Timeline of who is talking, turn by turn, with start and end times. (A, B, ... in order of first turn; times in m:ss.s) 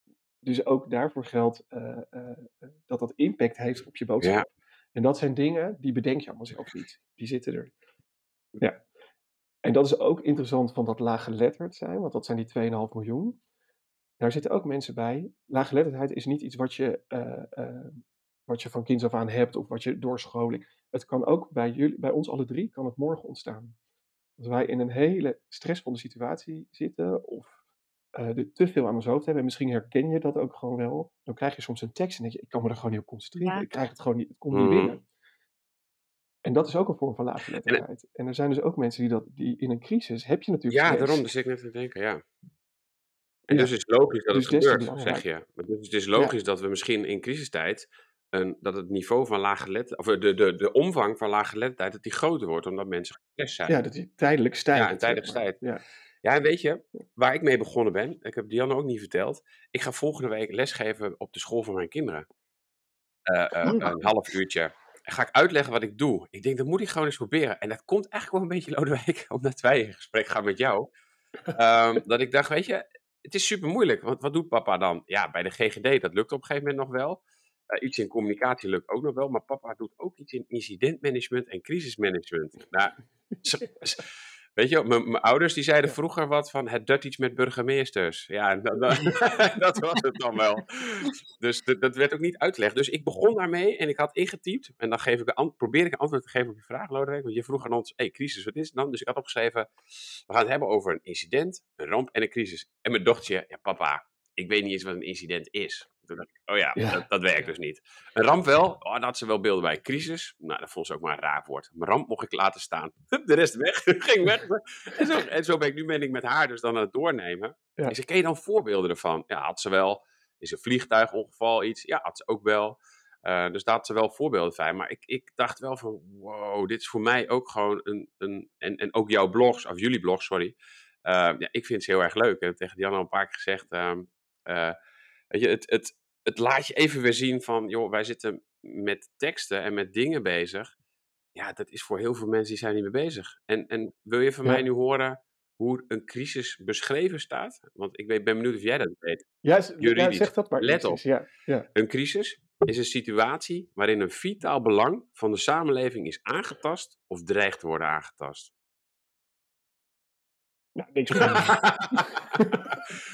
0:00.4-0:04.4 A
0:04.2-0:04.5 B
0:05.0-0:07.7 A
0:09.6-0:13.4 A
0:14.2-0:23.8 A
0:24.4-0:27.5 A
0:28.2-0:35.0 A
0:34.5-0:35.0 B
0:36.4-0:41.3 A
0:40.7-0:42.2 B
0:43.5-0:53.8 B
0:44.3-0:45.2 A
0:53.7-0:55.8 A
0:54.8-0:55.6 B
0:56.2-1:02.2 B
1:03.3-1:10.9 B
1:03.6-1:03.9 A
1:11.5-1:17.2 B
1:17.7-1:24.0 B
1:24.6-2:14.8 B
1:46.8-1:47.1 A
2:15.3-2:20.7 B
2:21.4-2:29.3 B
2:29.4-2:31.7 A
2:29.8-2:31.0 B
2:31.8-2:38.5 B
2:40.8-2:42.8 A
2:41.2-2:42.4 B